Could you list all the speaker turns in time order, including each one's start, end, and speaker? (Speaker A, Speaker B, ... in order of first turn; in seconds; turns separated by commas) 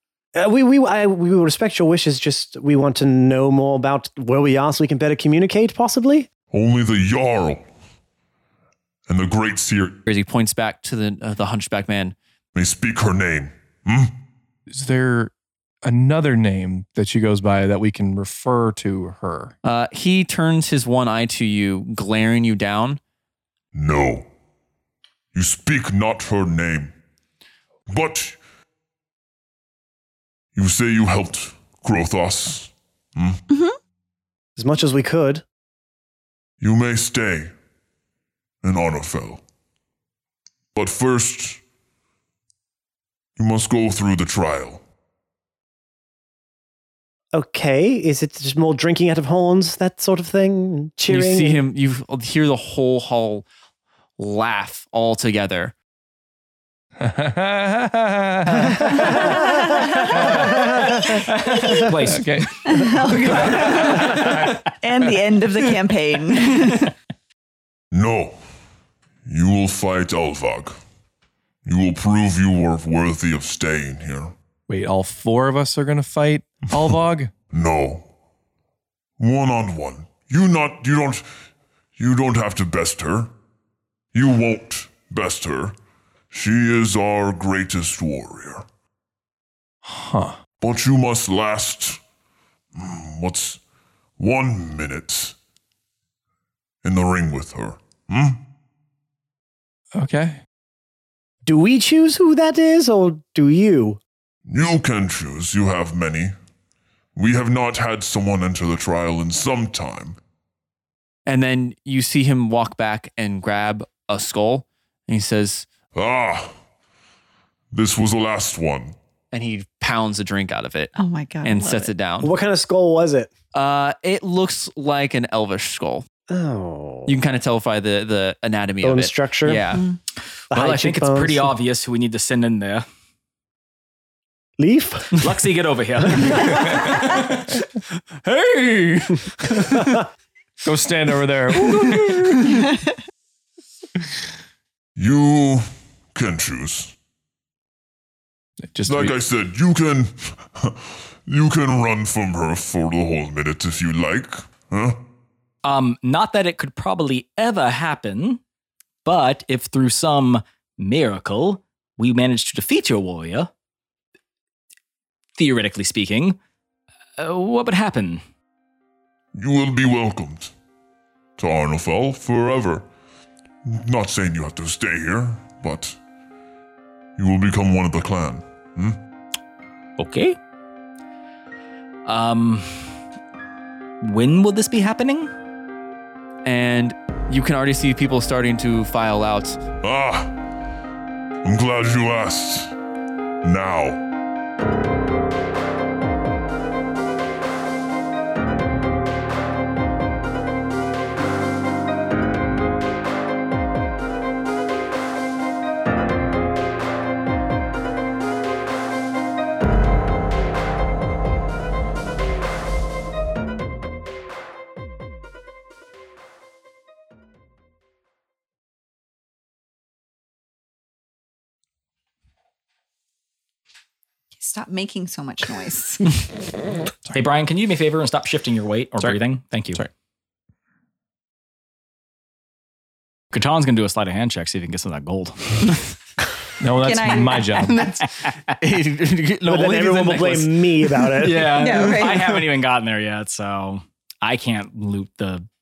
Speaker A: 0.3-6.3, Speaker B: 6.5-7.6, Speaker B: 9.1-10.0, Speaker C: 10.1-12.2, Speaker B: 12.5-14.1, Speaker D: 14.7-15.3, Speaker D: 15.8-19.5, Speaker C: 19.6-23.0, Speaker B: 23.7-24.3, Speaker B: 25.3-26.9, Speaker B: 27.9-28.4, Speaker B: 30.6-33.4, Speaker E: 33.5-33.8, Speaker A: 34.6-35.4, Speaker B: 36.6-37.5, Speaker B: 38.6-39.4, Speaker B: 40.8-41.6, Speaker B: 43.4-44.8, Speaker A: 47.3-51.6, Speaker C: 51.1-53.5, Speaker C: 54.2-55.8, Speaker D: 57.0-59.2, Speaker A: 59.0-59.4, Speaker E: 59.2-61.9, Speaker D: 60.1-60.5, Speaker F: 60.4-64.5, Speaker D: 62.0-62.5, Speaker E: 62.7-66.9, Speaker D: 63.0-64.6, Speaker B: 67.9-68.4, Speaker B: 69.3-70.8, Speaker B: 71.7-74.3, Speaker D: 74.7-77.3, Speaker B: 77.5-78.1, Speaker B: 79.2-81.2, Speaker B: 82.0-83.3, Speaker B: 84.1-85.8, Speaker B: 86.3-88.7, Speaker D: 89.8-90.4, Speaker B: 90.6-92.0, Speaker B: 92.8-93.6, Speaker B: 94.2-95.4, Speaker B: 96.8-98.4, Speaker D: 99.9-100.4, Speaker A: 101.5-104.0, Speaker B: 104.5-106.3, Speaker B: 107.2-110.2, Speaker C: 111.3-115.7, Speaker B: 116.0-116.5, Speaker B: 117.7-118.9, Speaker C: 119.3-122.3, Speaker E: 121.0-121.9, Speaker A: 122.2-123.3, Speaker C: 123.5-126.1, Speaker A: 126.3-127.2, Speaker C: 127.1-129.8, Speaker A: 128.8-129.6, Speaker F: 130.5-132.8, Speaker A: 130.5-131.5, Speaker A: 134.6-135.3, Speaker F: 135.2-137.6, Speaker A: 136.1-136.8, Speaker D: 136.6-137.2, Speaker D: 138.3-140.0, Speaker F: 138.9-139.2, Speaker D: 140.6-142.7, Speaker B: 145.0-146.9, Speaker D: 148.7-149.2, Speaker B: 148.9-155.0, Speaker F: 155.7-158.4, Speaker F: 159.1-163.5, Speaker F: 165.4-166.4, Speaker F: 167.2-168.2, Speaker B: 169.4-170.5, Speaker B: 171.4-172.9, Speaker B: 173.7-176.0, Speaker B: 177.2-179.0, Speaker F: 180.0-180.4, Speaker F: 182.1-183.0, Speaker F: 184.0-185.3, Speaker C: 186.4-189.6, Speaker B: 189.8-190.3, Speaker B: 191.4-192.8, Speaker B: 193.4-194.0, Speaker E: 224.4-226.3, Speaker F: 227.1-229.8, Speaker F: 233.3-235.8, Speaker D: 236.6-237.9, Speaker E: 236.7-238.0, Speaker C: 238.5-240.8, Speaker A: 239.5-242.3, Speaker F: 241.2-245.4, Speaker E: 241.5-242.3